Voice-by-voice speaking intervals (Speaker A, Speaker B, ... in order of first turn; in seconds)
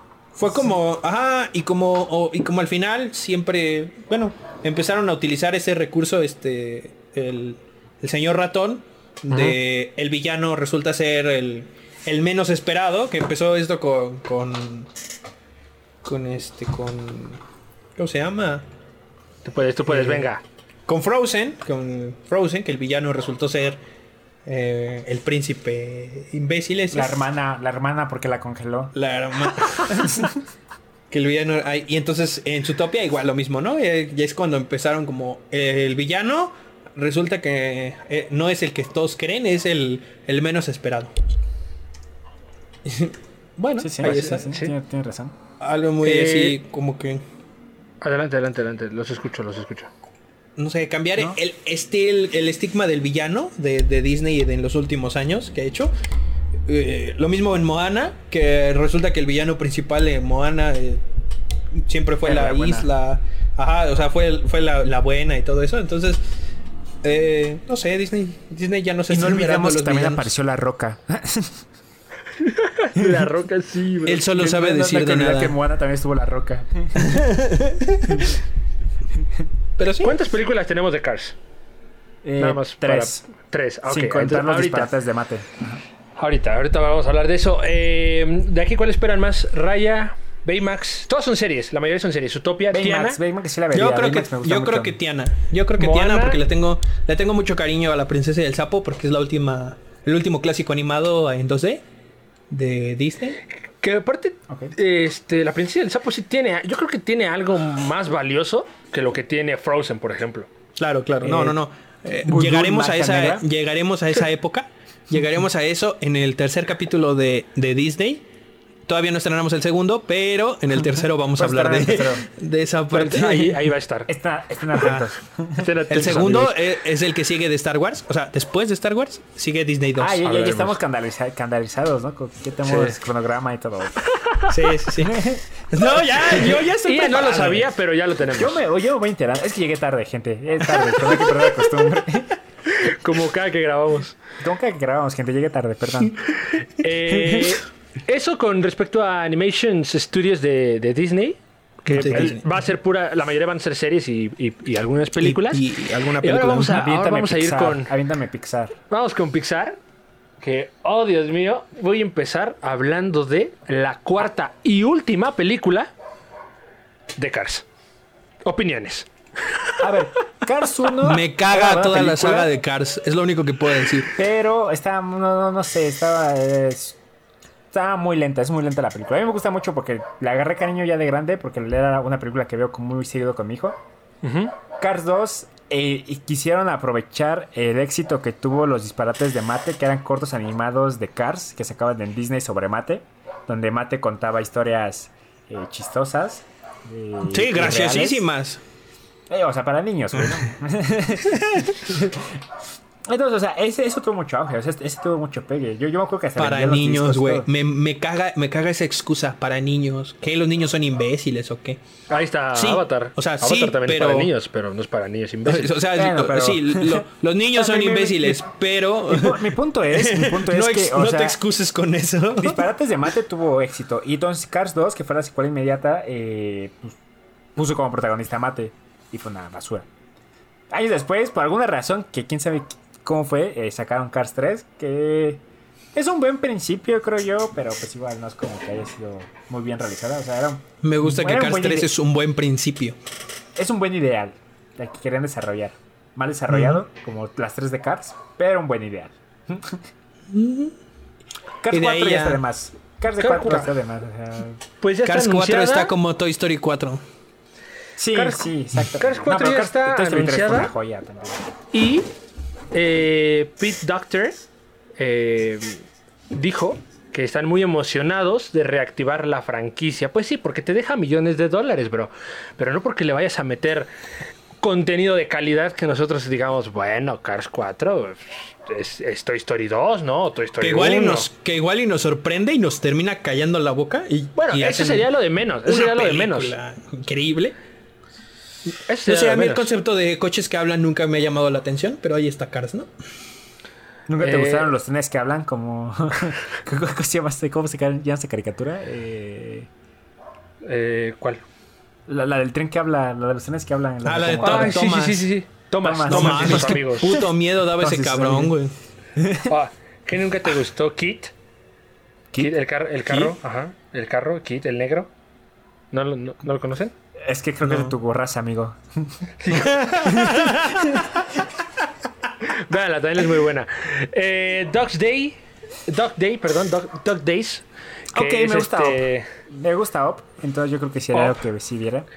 Speaker A: 0.3-14.9, 16.0-17.4, 18.0-18.6, 19.9-20.3, 20.9-23.8, 24.5-27.2, 28.9-30.3, 31.1-41.1, 42.9-43.2, 44.0-44.5, 45.6-47.2, 50.6-55.9, 56.7-61.0, 61.7-66.2, 67.0-70.3, 74.1-75.6, 77.0-78.3, 79.8-80.2, 93.7-101.8, 102.5-103.4, 110.8-118.2, 118.9-123.7, 124.8-125.1, 125.9-130.2, 134.5-137.7, 151.9-152.4, 155.2-156.8, 171.0-174.1, 197.2-198.6, 206.4-211.8, 212.5-214.3, 215.4-222.6, 240.8-243.0, 246.5-246.8, 250.3-250.7, 251.7-252.4, 255.1-257.0, 280.6-287.6, 289.1-292.9, 304.0-305.3, 306.1-308.7, 317.6-317.9, 319.5-321.0
Speaker B: 9.3-9.6, 19.4-20.4, 43.6-44.8, 46.0-46.6, 48.0-49.9, 72.4-74.3, 80.0-81.4, 82.4-84.9, 86.2-93.2, 95.8-96.4, 103.8-110.5, 122.9-124.1, 125.6-126.6, 130.2-130.8, 134.1-134.5, 136.4-138.6, 142.7-144.2, 146.8-155.6, 156.2-157.9, 158.9-159.8, 160.4-165.9, 167.2-167.7, 168.4-169.8, 184.2-184.5, 212.1-215.8, 253.2-253.7, 254.8-255.9, 258.1-258.4, 259.0-260.7, 261.7-262.1, 262.7-264.5, 265.0-273.9, 274.6-281.3, 284.4-286.6, 288.9-289.7, 294.2-294.7, 300.6-301.4, 304.3-307.2, 309.5-311.3, 312.4-315.1, 315.9-316.9, 319.4-320.2, 322.4-329.3, 331.1-331.4
Speaker C: 26.9-28.9, 29.9-30.3, 43.8-45.4, 62.2-62.9, 69.1-71.6, 74.3-77.2, 82.2-83.2, 83.9-85.8, 92.7-95.0, 111.2-111.6, 112.2-113.5, 121.4-122.2, 124.1-126.1, 130.0-134.0, 135.0-135.4, 138.4-142.3, 144.4-146.3, 147.1-147.6, 152.1-152.4, 156.6-158.8, 169.8-172.5, 174.2-177.0, 177.7-183.8, 184.8-198.2, 199.3-202.4, 203.1-207.5, 215.9-218.4, 219.1-221.4, 222.4-227.0, 227.6-229.9, 230.7-235.4, 235.9-241.9, 243.6-249.8, 251.6-254.6, 258.0-261.4, 294.1-299.7, 302.1-304.9, 305.8-307.3, 307.8-308.6, 309.2-309.5, 317.2-319.3, 320.0-321.2, 328.1-332.1